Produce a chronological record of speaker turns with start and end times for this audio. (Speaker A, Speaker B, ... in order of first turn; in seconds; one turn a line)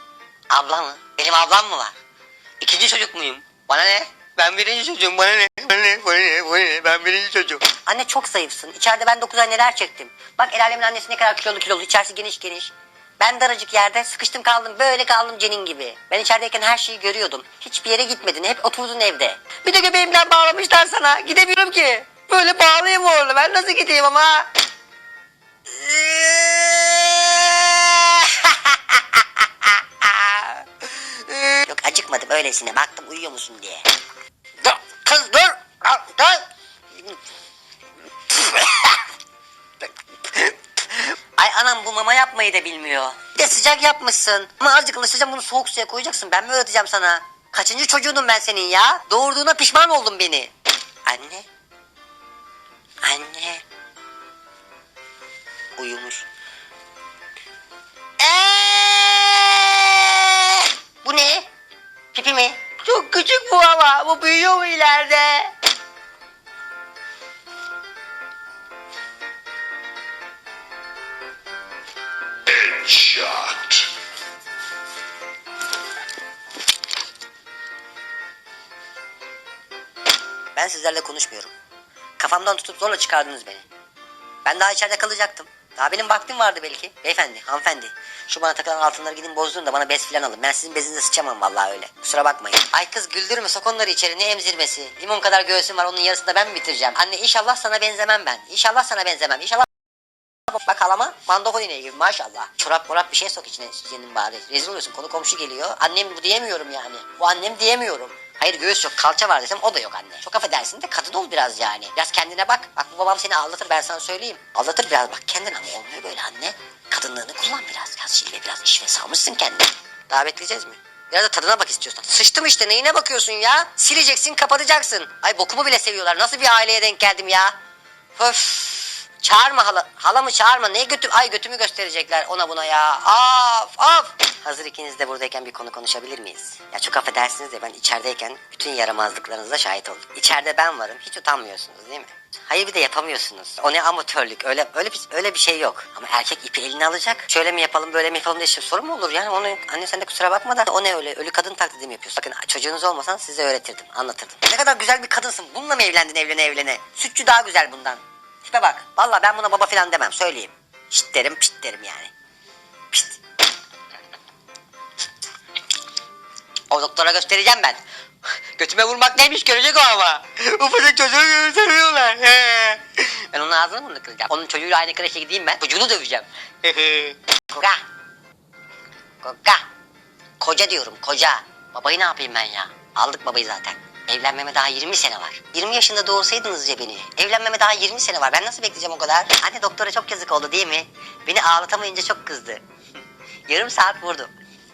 Speaker A: 0.5-2.0
Speaker A: 2.6-24.5
Speaker A: 25.7-33.9
Speaker A: 34.6-36.5
Speaker A: 38.3-39.0
Speaker A: 40.2-50.5
Speaker A: 51.0-51.5
Speaker A: 53.0-53.6
Speaker A: 55.8-56.3
Speaker A: 58.2-61.5
Speaker A: 62.1-65.5
Speaker A: 72.9-73.5
Speaker A: 80.5-81.5
Speaker A: 82.2-83.7
Speaker A: 84.5-99.7
Speaker A: 100.5-127.6
Speaker A: 128.2-162.1
Speaker A: 162.9-163.2
Speaker A: 166.7-167.8
Speaker A: 168.6-177.8
Speaker A: 179.2-179.7
Speaker A: 180.4-192.6
Speaker A: 193.5-194.3